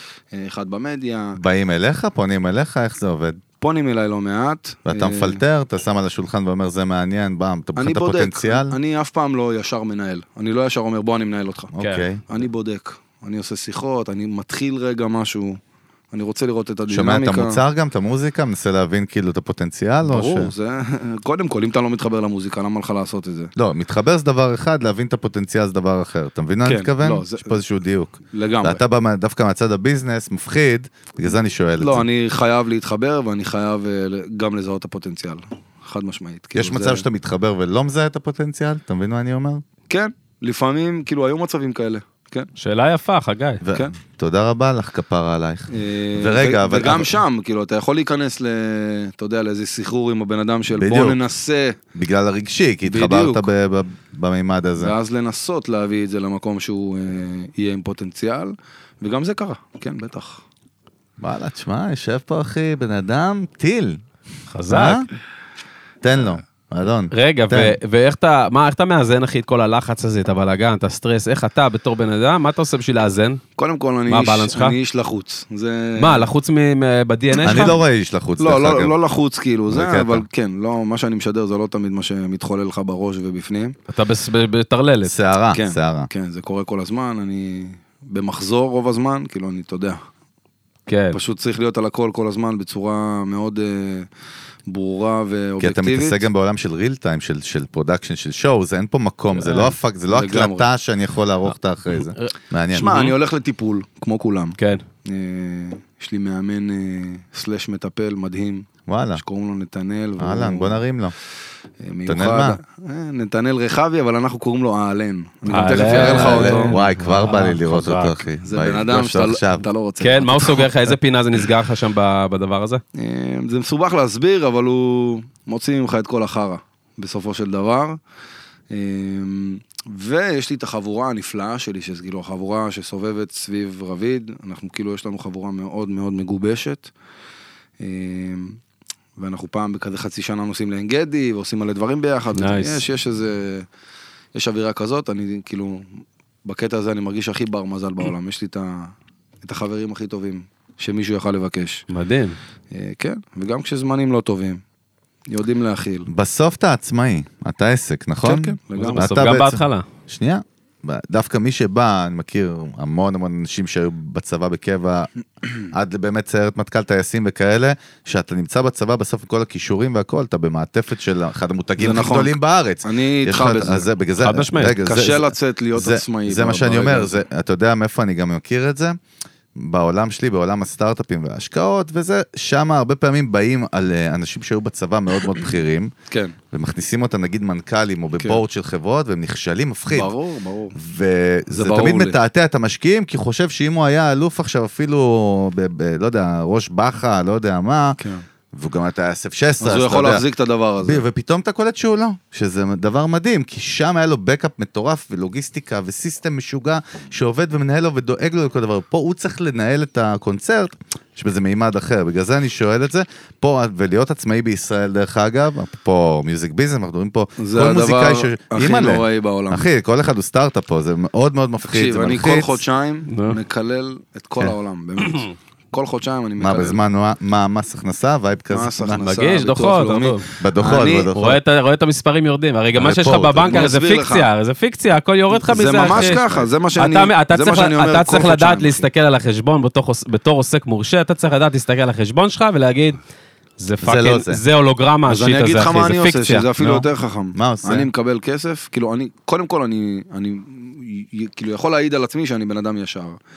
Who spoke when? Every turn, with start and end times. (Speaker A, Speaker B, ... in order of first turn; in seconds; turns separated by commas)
Speaker A: 0.3-1.4, Speaker B: 1.4-3.4, Speaker A: 3.6-5.4, Speaker B: 4.9-8.8, Speaker A: 7.8-11.7, Speaker B: 11.7-12.2, Speaker C: 11.8-12.1, Speaker A: 12.3-15.6, Speaker A: 16.1-17.6, Speaker B: 16.9-20.5, Speaker A: 20.0-23.5, Speaker B: 23.6-32.0, Speaker A: 26.6-27.6, Speaker A: 28.3-28.8, Speaker A: 31.8-37.0, Speaker B: 36.5-39.6, Speaker A: 39.9-42.5, Speaker C: 42.6-43.6, Speaker B: 43.6-47.2, Speaker A: 45.7-51.8, Speaker B: 50.8-51.2, Speaker B: 52.0-54.9, Speaker A: 52.9-53.5, Speaker A: 54.8-60.4, Speaker B: 61.2-64.0, Speaker C: 64.5-65.0, Speaker B: 64.7-65.1, Speaker B: 66.0-67.8, Speaker C: 67.1-73.4, Speaker A: 73.6-76.3, Speaker C: 74.1-74.8, Speaker C: 76.0-77.8, Speaker A: 77.3-77.8, Speaker B: 77.4-79.0, Speaker A: 78.4-83.8, Speaker B: 79.7-80.2, Speaker C: 83.9-85.1, Speaker B: 85.1-86.1, Speaker A: 85.5-90.0, Speaker C: 90.9-91.2, Speaker A: 91.1-94.1, Speaker A: 94.7-96.2, Speaker B: 95.6-103.1, Speaker C: 99.3-99.8, Speaker A: 100.1-100.7, Speaker C: 102.0-102.3, Speaker A: 102.7-110.8, Speaker C: 104.6-104.8, Speaker B: 108.9-109.2, Speaker B: 110.2-111.1, Speaker A: 111.8-116.8, Speaker B: 112.1-112.6, Speaker C: 115.5-118.2, Speaker B: 115.9-119.6, Speaker A: 118.4-120.7, Speaker C: 120.0-122.8, Speaker A: 123.0-128.0, Speaker A: 128.7-136.9, Speaker A: 137.8-138.6, Speaker A: 139.2-143.7, Speaker C: 142.3-142.8, Speaker A: 144.3-151.8, Speaker C: 151.9-152.4, Speaker A: 152.7-154.6, Speaker A: 155.3-156.1, Speaker B: 156.1-165.1, Speaker A: 158.2-159.3, Speaker C: 158.8-159.8, Speaker B: 165.7-179.0, Speaker A: 171.8-173.9, Speaker C: 174.2-174.8, Speaker A: 174.8-177.2, Speaker B: 179.6-185.9, Speaker A: 186.1-186.3, Speaker B: 186.5-190.1, Speaker A: 189.9-190.8, Speaker B: 190.8-198.0, Speaker A: 191.5-192.2, Speaker A: 198.0-198.2, Speaker B: 198.5-200.2, Speaker A: 199.6-201.0, Speaker B: 200.8-222.6, Speaker A: 217.4-219.7, Speaker A: 221.6-226.8, Speaker C: 223.1-223.4, Speaker B: 226.4-229.0, Speaker A: 228.5-231.1, Speaker C: 229.0-230.2, Speaker B: 230.4-231.4, Speaker C: 231.1-236.2, Speaker B: 232.8-233.7, Speaker A: 233.4-234.3, Speaker A: 235.3-238.9, Speaker B: 235.9-236.4, Speaker C: 236.8-243.0, Speaker C: 243.6-246.5, Speaker B: 243.8-244.4, Speaker A: 245.1-253.2, Speaker B: 247.3-247.9